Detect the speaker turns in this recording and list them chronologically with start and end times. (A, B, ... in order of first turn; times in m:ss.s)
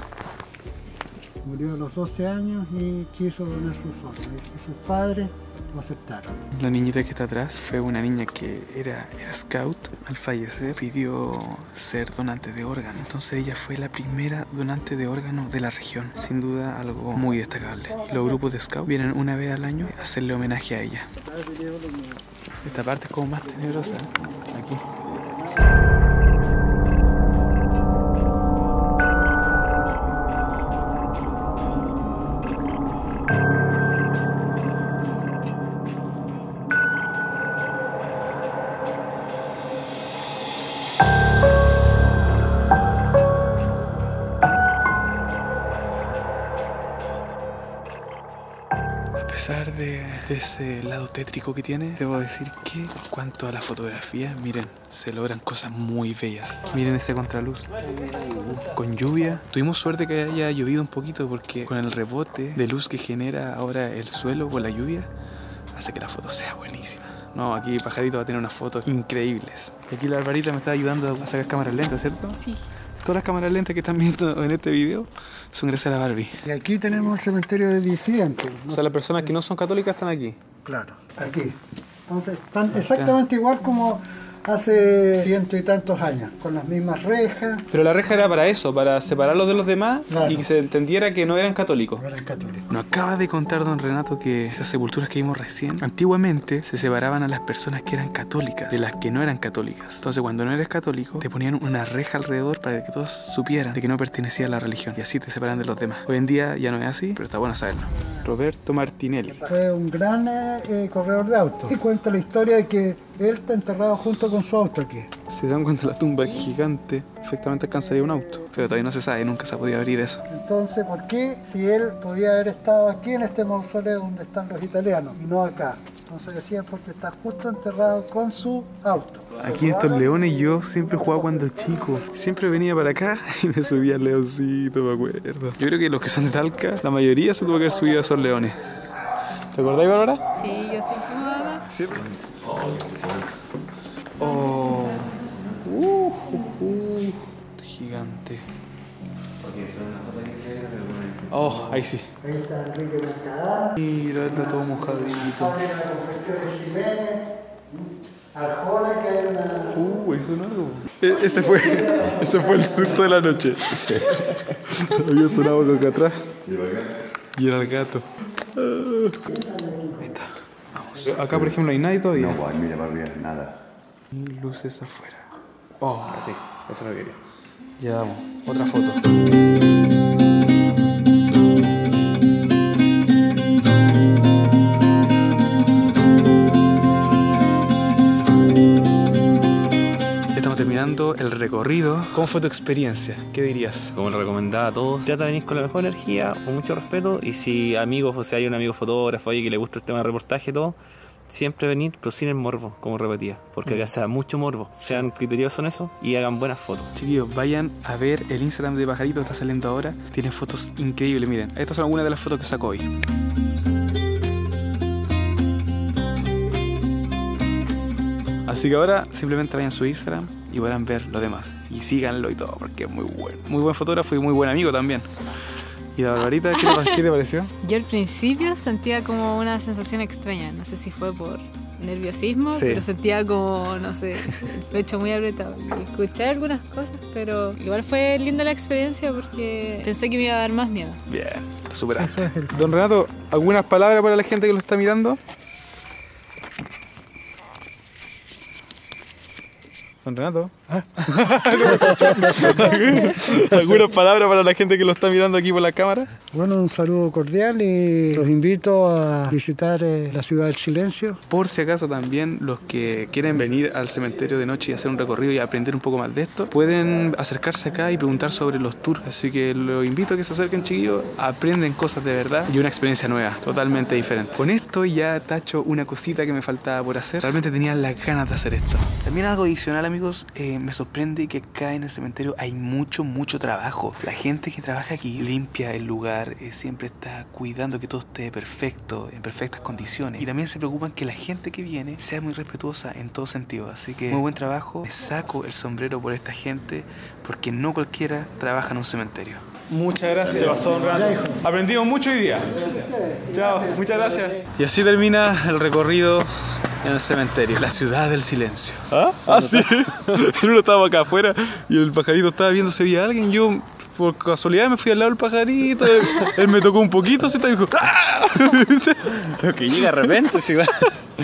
0:01.4-0:06.4 A
0:06.5-0:21.1 B
0:17.2-0:18.5 A
0:21.2-0:22.2 A
0:22.6-0:24.8 B
0:23.4-0:24.1 A
0:25.0-0:25.8 A
0:49.2-1:05.1 B
1:05.7-1:12.4 B
1:12.4-1:12.6 C
1:13.0-1:16.3 B
1:16.4-1:19.4 A
1:18.7-1:20.4 B
1:20.6-1:27.6 A
1:22.7-1:23.2 B
1:27.7-1:32.0 B
1:30.1-1:30.5 A
1:32.0-1:32.7 A
1:32.7-1:49.5 B
1:49.2-1:55.1 A
1:55.3-2:00.2 B
1:57.7-1:58.1 A
2:00.3-2:12.0 A
2:09.4-2:18.6 B
2:19.5-2:20.2 B
2:20.4-2:21.6 C
2:21.7-2:22.1 B
2:21.9-2:23.3 D
2:24.2-2:28.4 B
2:24.2-2:25.4 C
2:29.4-2:31.8 D
2:31.3-2:32.1 B
2:32.2-2:39.8 A
2:33.8-2:35.6 B
2:39.7-2:46.2 B
2:41.6-2:42.9 A
2:46.4-2:46.9 E
2:47.3-2:49.2 B
2:49.3-2:50.1 A
2:50.0-2:52.4 B
2:51.3-2:51.6 E
2:52.1-2:53.6 E
2:54.1-2:56.8 B
2:56.1-2:57.2 D
2:57.8-2:59.0 B
3:10.3-3:14.0 B
3:13.9-3:20.8 D
3:21.3-3:26.9 D
3:24.8-3:25.1 B
3:26.9-3:32.8 B
3:38.4-3:45.1 B
3:45.9-3:47.5 B
3:46.5-3:47.0 C
3:47.6-4:01.0 C
3:52.5-3:52.8 B
3:54.2-3:54.5 B
4:01.1-4:05.2 B
4:02.0-4:02.7 A
4:10.0-4:16.1 B
4:10.7-4:12.8 A
4:16.3-4:21.2 A
4:21.3-5:20.8 B
5:00.2-5:00.6 E
5:00.8-5:01.4 A
5:02.4-5:04.2 A
5:08.9-5:10.2 D
5:19.3-5:20.9 D